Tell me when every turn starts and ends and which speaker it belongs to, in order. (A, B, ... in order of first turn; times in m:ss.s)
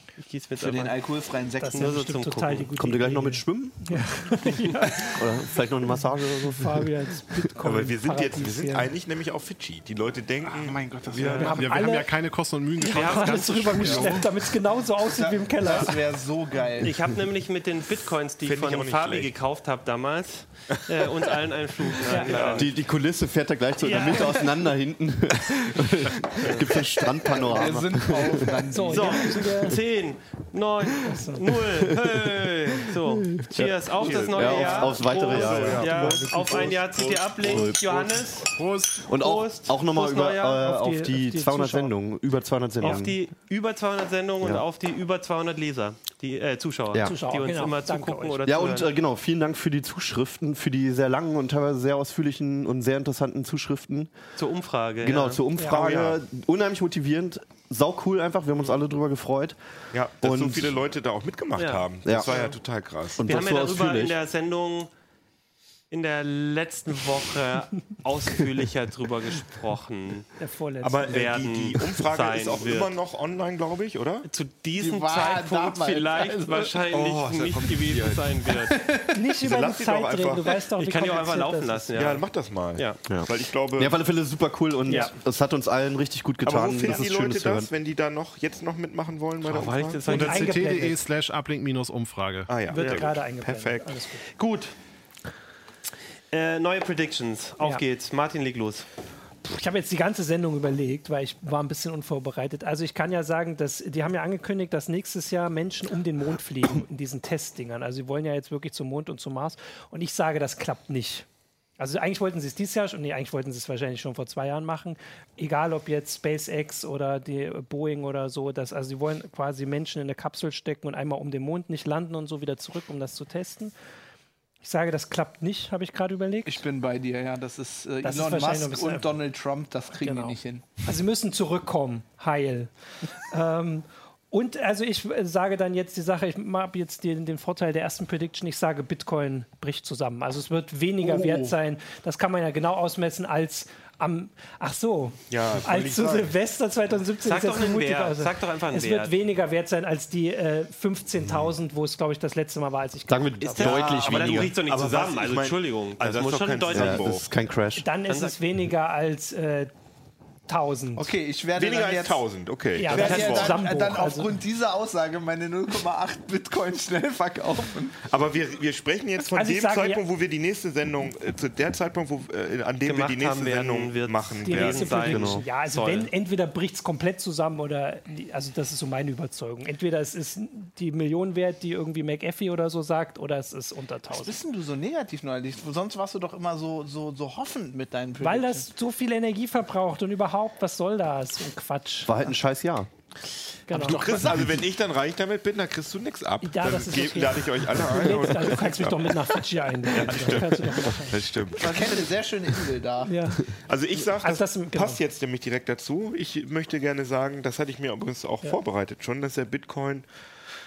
0:00.2-0:01.1 A
0:00.6-0:02.0 B
0:01.6-0:05.2 C
0:01.7-0:02.7 A
0:02.8-0:04.3 D
0:05.0-0:07.4 D
0:06.4-0:08.9 C
0:07.6-0:11.5 E
0:10.4-0:11.8 B
0:11.2-0:11.5 A
0:11.2-0:12.2 C
0:11.4-0:14.2 F
0:12.7-0:16.1 C
0:12.8-0:14.2 A
0:13.9-0:14.3 B
0:15.0-0:17.0 B
0:16.8-0:22.8 A
0:18.4-0:19.3 E
0:22.1-0:22.6 C
0:22.3-0:22.6 E
0:22.5-0:28.6 D
0:23.8-0:24.3 A
0:23.8-0:24.4 C
0:27.1-0:29.4 B
0:28.7-0:29.8 C
0:28.9-0:38.5 A
0:31.0-0:31.5 C
0:32.0-0:36.0 D
0:34.0-0:37.3 E
0:35.8-0:37.1 F
0:36.0-0:36.2 C
0:37.4-0:37.8 D
0:38.4-0:39.1 F
0:39.0-0:43.2 D
0:39.1-0:40.6 A
0:40.5-0:41.9 C
0:42.8-0:48.9 A
0:47.0-0:48.6 C
0:48.4-0:54.1 D
0:54.4-0:55.4 A
0:55.0-0:59.6 D
0:55.6-0:55.8 C
0:55.6-0:56.2 E
0:59.9-1:03.3 E
1:00.2-1:00.8 D
1:01.6-1:02.5 A
1:02.0-1:02.4 D
1:03.1-1:04.2 D
1:03.2-1:04.9 A
1:05.9-1:10.3 A
1:10.4-1:11.2 C
1:10.8-1:14.3 E
1:11.1-1:12.9 A
1:14.2-1:18.8 A
1:14.8-1:16.8 B
1:16.9-1:18.3 E
1:18.6-1:19.3 B
1:19.1-1:22.1 C
1:19.4-1:20.6 E
1:20.8-1:23.0 A
1:21.9-1:24.0 E
1:23.1-1:27.7 D
1:24.8-1:25.1 C
1:26.4-1:30.1 E
1:29.4-1:30.6 A
1:30.1-1:31.0 C
1:30.1-1:32.6 F
1:32.5-1:34.0 E
1:32.6-1:34.3 C
1:32.7-1:33.0 A
1:34.3-1:34.7 A
1:36.3-1:38.8 A
1:39.4-1:51.2 C
1:51.8-2:03.7 C
2:04.6-2:06.6 C
2:06.4-2:10.8 B
2:08.0-2:09.2 C
2:10.0-2:33.9 C
2:21.0-2:21.5 B
2:25.3-2:26.3 E
2:27.2-2:29.1 A
2:33.1-2:34.5 D
2:33.4-2:37.0 A
2:33.6-2:37.3 E
2:36.7-2:37.8 D
2:37.8-2:39.7 C
2:38.1-2:38.4 A
2:40.5-2:41.1 C
2:41.0-2:42.2 B
2:41.6-2:43.6 E
2:42.8-2:44.4 C
2:42.8-2:48.0 B
2:48.0-2:55.2 E
2:49.3-2:50.0 C
2:52.8-2:56.1 A
2:54.4-3:04.4 C
2:55.1-2:55.4 D
3:04.1-3:08.7 B
3:08.2-3:12.2 C
3:12.0-3:12.9 D
3:13.7-3:14.3 C
3:13.7-3:22.0 E
3:13.8-3:14.6 B
3:16.4-3:21.2 C
3:21.6-3:23.2 B
3:23.0-3:23.5 C
3:23.6-3:30.0 E
3:24.1-3:25.0 C